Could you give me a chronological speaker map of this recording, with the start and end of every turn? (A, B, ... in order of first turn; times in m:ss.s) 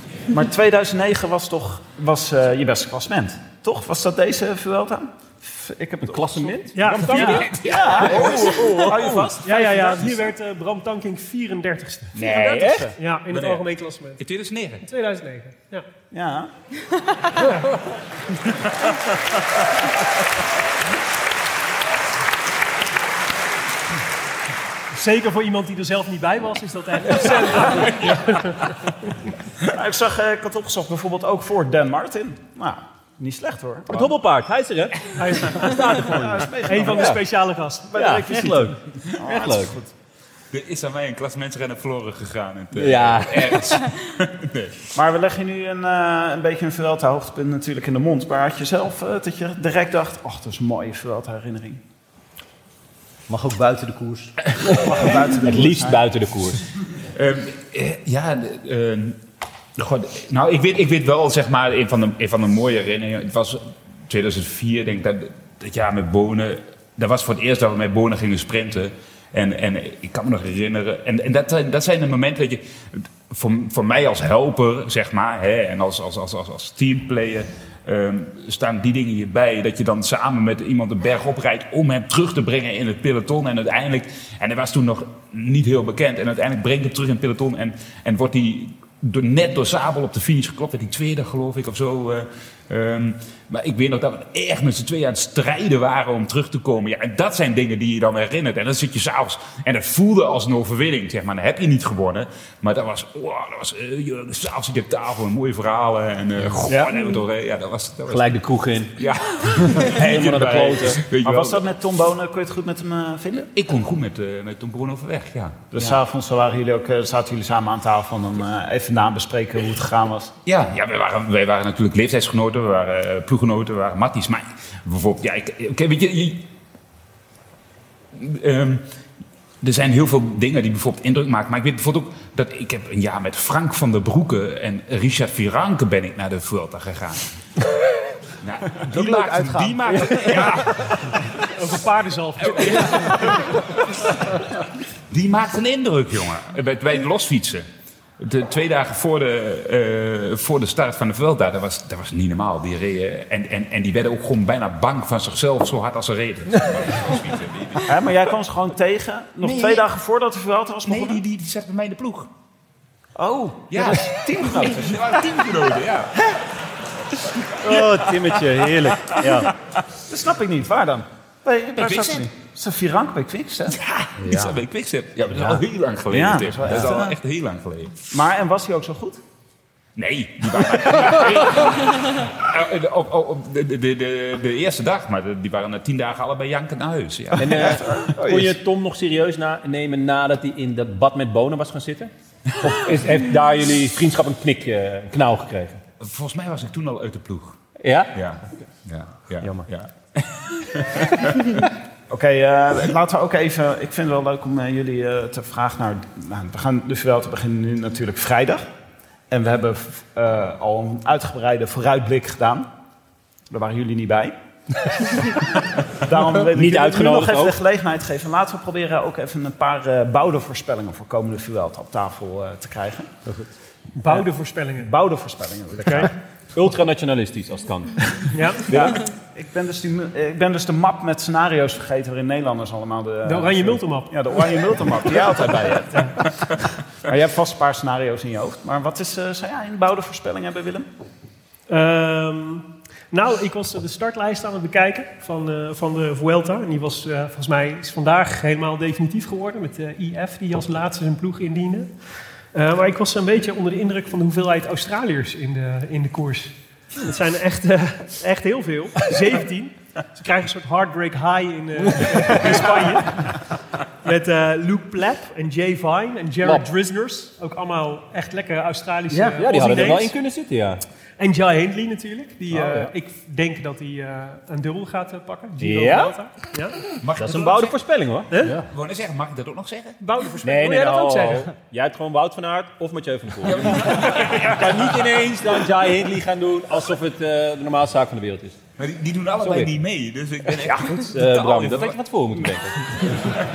0:00.3-0:10.1 A
0:06.0-0:07.5 B
0:06.7-0:07.6 C
0:07.0-0:09.3 D
0:08.0-0:09.3 B
0:09.4-0:12.2 C
0:12.2-0:13.6 D
0:12.2-0:12.9 A
0:12.6-0:12.9 B
0:13.0-0:14.2 C
0:14.2-0:14.8 D
0:14.8-0:15.9 C
0:16.1-0:16.5 A
0:24.9-0:28.7 C
0:27.2-0:28.2 B
0:29.7-0:34.1 A
0:33.9-0:37.2 B
0:35.2-0:38.6 C
0:36.0-0:37.2 A
0:37.9-0:39.8 B
0:37.9-0:39.9 A
0:40.5-0:44.8 D
0:42.8-0:43.7 B
0:45.0-0:51.8 A
0:53.3-0:54.4 E
0:54.8-0:56.0 A
0:55.4-0:56.6 B
0:57.1-0:59.2 D
0:59.8-1:48.4 D
1:46.7-1:46.9 B
1:48.1-1:49.0 B
1:49.0-1:51.6 D
1:49.6-1:51.0 B
1:51.2-1:53.5 A
1:53.5-1:55.8 D
1:55.7-2:00.3 A
2:00.5-2:06.5 D
2:08.1-2:08.8 D
2:09.6-2:17.3 D
2:18.4-2:21.0 D
2:19.0-2:20.0 E
2:21.4-2:23.4 C
2:22.4-2:24.4 D
2:25.1-2:27.7 D
2:28.2-2:37.9 D
2:37.9-2:41.2 A
2:39.4-2:39.9 D
2:40.9-2:42.3 D
2:43.2-2:44.8 A
2:43.7-2:46.2 D
2:44.5-2:44.8 B
2:47.6-2:49.5 B
2:50.1-2:54.5 A
2:51.8-2:52.3 D
2:53.8-2:58.0 D
2:56.1-2:57.2 A
2:58.1-2:59.2 A
3:00.0-3:07.8 D
3:07.4-3:15.8 B
3:07.5-3:08.6 A
3:16.0-3:17.6 D
3:17.8-3:18.1 B
3:18.1-3:21.6 D
3:22.1-3:28.6 A
3:29.3-3:32.7 A
3:33.5-3:34.4 A
3:35.1-3:35.3 A
3:35.9-3:43.1 A
3:36.5-3:37.6 B
3:44.0-3:44.9 C
3:44.8-3:46.1 A
3:45.9-3:46.1 C
3:46.6-3:48.0 B
3:48.3-3:48.6 C
3:48.7-3:56.5 A
3:53.2-3:54.1 C
3:57.0-4:00.9 A
4:01.7-4:11.9 C
4:12.5-4:23.4 C
4:22.0-4:22.8 B
4:24.0-4:30.1 C
4:26.4-4:26.7 B
4:29.1-4:30.8 B
4:31.2-4:36.8 C
4:32.5-4:32.9 B
4:35.6-4:36.2 B
4:37.0-4:37.8 D
4:37.2-4:38.3 B
4:38.3-4:38.6 C
4:38.7-4:40.0 D
4:40.0-4:41.5 C
4:40.4-4:48.6 B
4:43.4-4:45.1 D
4:48.8-4:52.0 D
4:49.4-4:49.8 B
4:50.7-4:53.1 B
4:53.0-4:53.4 D